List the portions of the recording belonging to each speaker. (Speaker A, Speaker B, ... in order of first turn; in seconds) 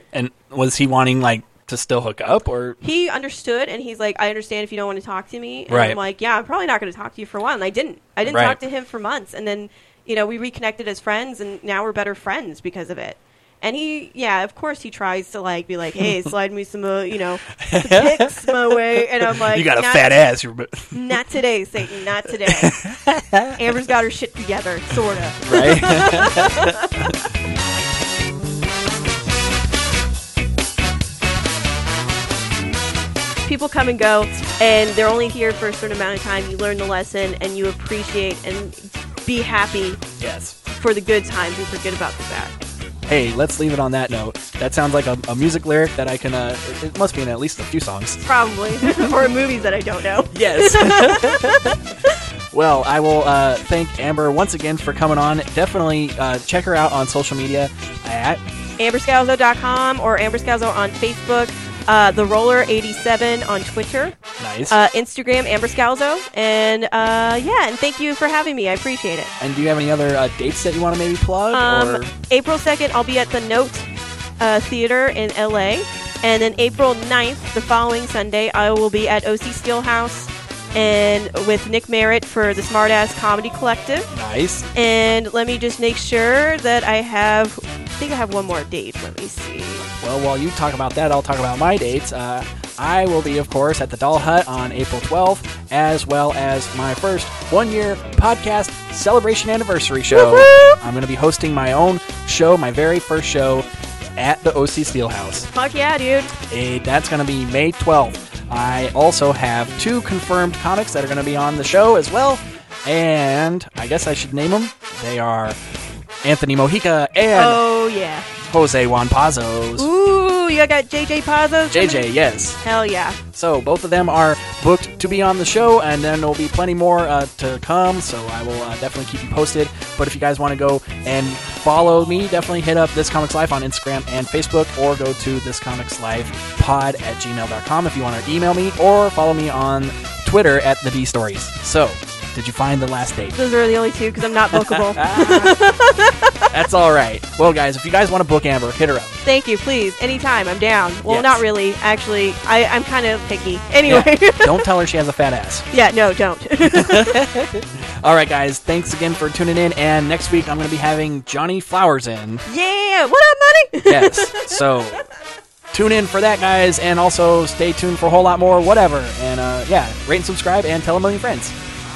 Speaker A: 0.1-2.8, 5.7-6.0, 8.2-8.6, 17.6-21.1, 22.5-23.6, 25.4-27.1, 40.2-40.6, 43.1-48.2, 50.3-51.7, 52.5-58.4, 64.4-64.8, 69.4-72.1, 84.1-84.7, 90.0-105.5, 106.5-115.6, 116.2-117.6, 118.5-119.9, 121.7-122.6, 123.3-143.3, 144.5-145.6, 146.5-149.1, 151.1-151.4, 153.9-155.7, 156.7-162.4, 163.9-165.1, 165.7-171.6
Speaker B: 2.8-20.1, 20.9-22.8, 23.6-27.3, 33.5-40.0, 40.7-42.6, 48.2-52.1, 58.8-64.2, 64.7-69.3, 71.5-73.9, 74.4-84.1, 84.8-89.9, 100.1-100.8, 105.5-106.3, 117.3-118.3, 119.8-122.1, 122.6-123.2, 143.3-146.5, 149.2-154.6, 155.7-157.2, 162.5-164.6